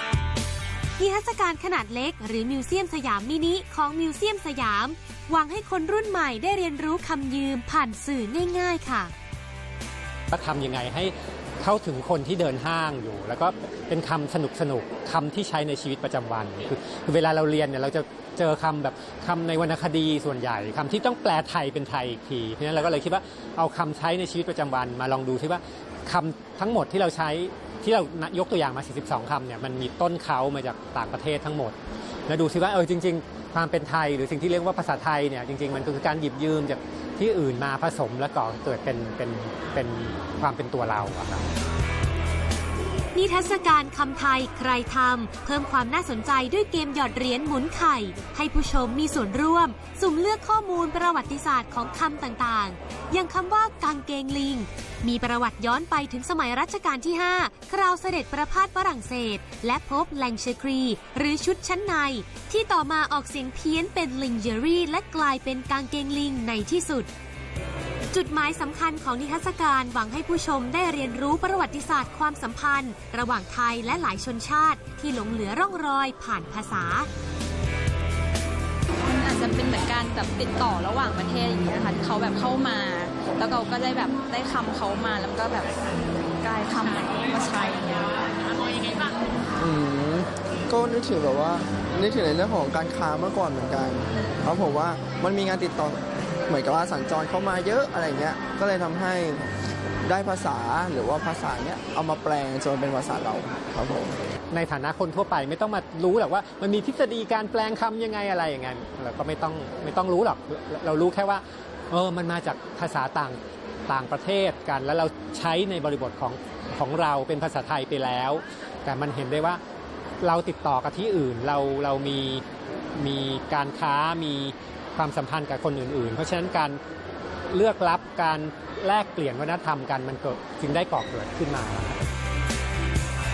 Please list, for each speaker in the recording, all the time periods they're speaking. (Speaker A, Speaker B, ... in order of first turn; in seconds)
Speaker A: 1.0-9.1, 43.1-67.1, 68.1-77.1
Speaker B: 10.3-31.8, 32.3-41.5, 104.5-119.6, 120.2-122.5, 123.0-126.8, 127.5-132.0
Speaker C: 79.0-88.9
Speaker D: 89.6-99.5, 100.0-104.2